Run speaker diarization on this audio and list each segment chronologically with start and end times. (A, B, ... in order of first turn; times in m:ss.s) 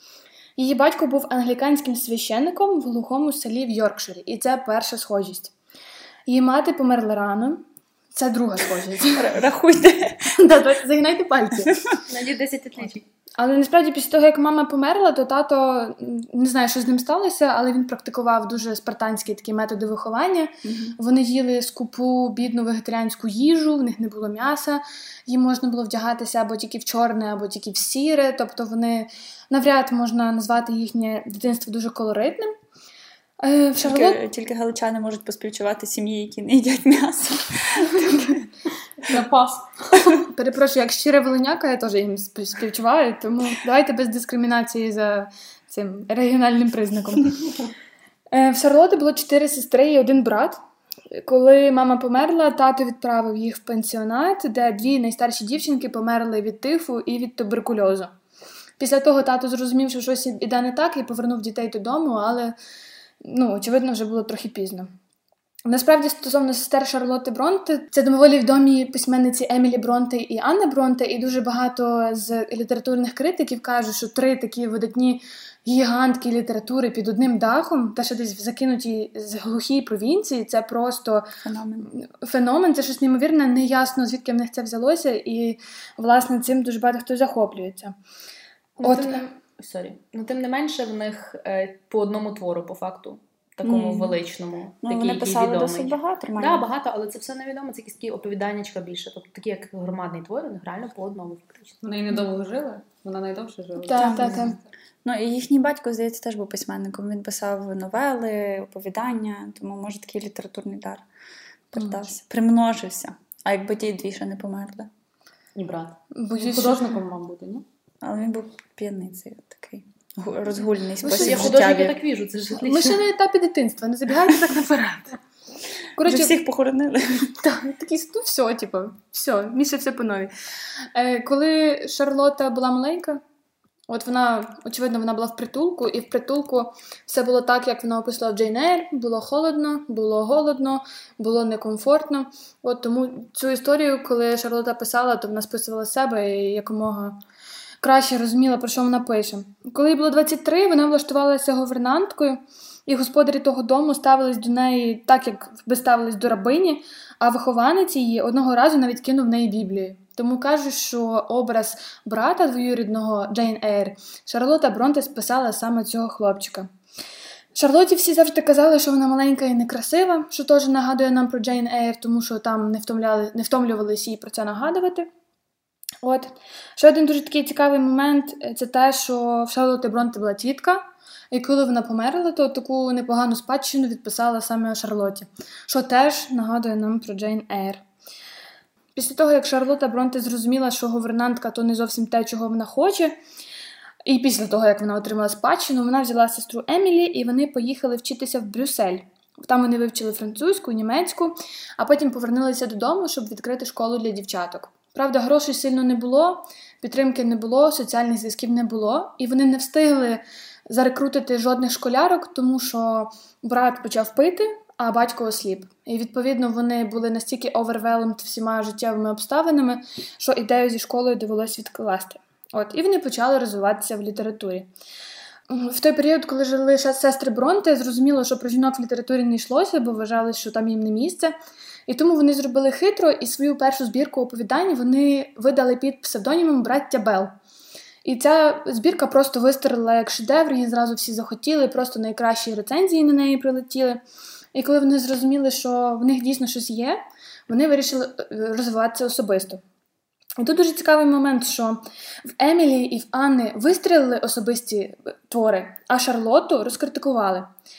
0:00.6-0:05.5 A
0:06.2-0:09.4 A
0:09.1-0:10.4 B
0:10.3-0:11.9 A
0:12.1-0:13.0 C
0:13.4-0:32.5 A
0:20.6-0:20.9 B
0:33.4-0:34.2 A
0:33.8-0:38.4 B
0:39.0-0:40.2 D
0:40.3-0:47.7 A
0:48.3-0:50.6 A
0:51.1-0:58.1 A
0:58.8-1:02.5 A
1:03.2-1:04.9 A
1:05.6-1:21.3 A
1:21.4-1:21.9 B
1:21.8-1:27.9 A
1:28.8-1:41.8 C
1:28.8-1:29.3 A
1:33.6-1:34.1 B
1:34.8-1:36.6 B
1:41.8-1:44.6 D
1:43.8-1:44.6 A
1:43.9-1:51.0 B
1:51.7-1:54.9 B
1:51.7-1:52.0 A
1:55.6-1:57.6 D
1:56.2-1:56.9 A
1:58.0-2:02.0 B
2:01.0-2:01.8 A
2:01.0-2:03.0 C
2:02.5-2:05.2 A
2:06.0-2:06.4 A
2:06.0-2:07.3 B
2:07.4-2:10.3 A
2:10.9-2:13.2 A
2:13.9-2:27.2 A
2:27.8-2:46.7 A
2:47.5-2:55.1 A
2:56.0-3:07.8 A
3:08.9-3:13.2 A
3:14.0-3:44.7 A
3:45.5-3:51.3 A
3:51.9-3:57.3 A
3:58.0-4:04.0 A
4:04.5-4:09.6 A
4:10.4-4:11.8 A
4:12.4-4:17.5 A